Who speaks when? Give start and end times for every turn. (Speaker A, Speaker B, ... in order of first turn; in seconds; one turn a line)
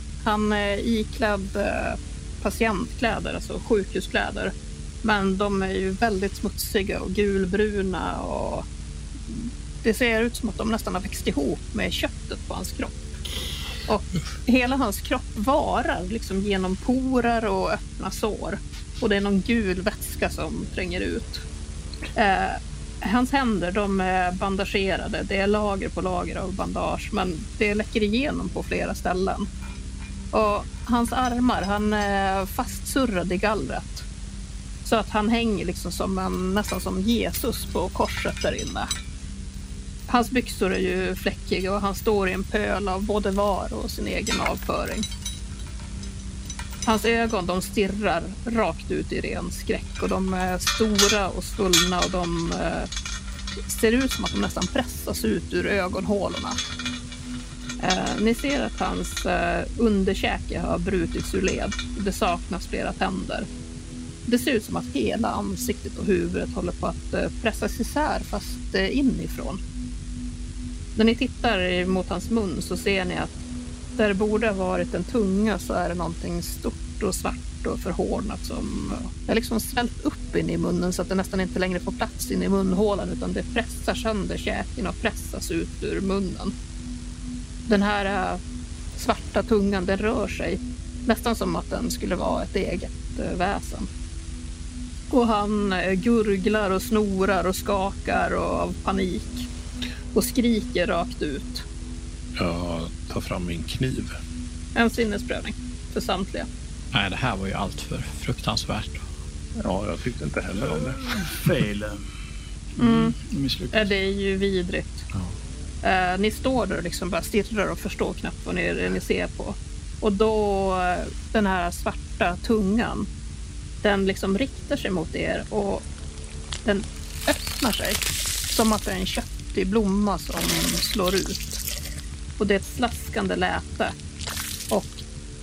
Speaker A: 0.2-8.6
Speaker A: 9.3-12.9
Speaker A: 13.9-21.4
Speaker A: 22.1-29.5
Speaker A: 30.3-34.1
Speaker A: 34.8-38.9
Speaker A: 40.1-45.0
Speaker A: 46.8-52.9
Speaker A: 53.6-56.6
Speaker A: 57.8-63.5
Speaker A: 64.3-69.6
Speaker A: 71.0-73.3
Speaker A: 74.0-86.5
Speaker A: 87.7-88.4
Speaker A: 89.0-93.9
Speaker A: 95.1-99.5
Speaker A: 100.1-101.7
Speaker B: 102.4-104.2
Speaker A: 104.7-106.5
Speaker C: 106.9-109.0
Speaker B: 109.6-111.5
Speaker D: 110.6-112.0
Speaker D: 112.8-113.9
Speaker A: 112.8-113.2
Speaker A: 113.7-115.1
Speaker A: 115.8-123.1
Speaker A: 123.8-125.8
Speaker A: 126.6-131.6
Speaker A: 132.4-133.9
Speaker A: 134.7-135.0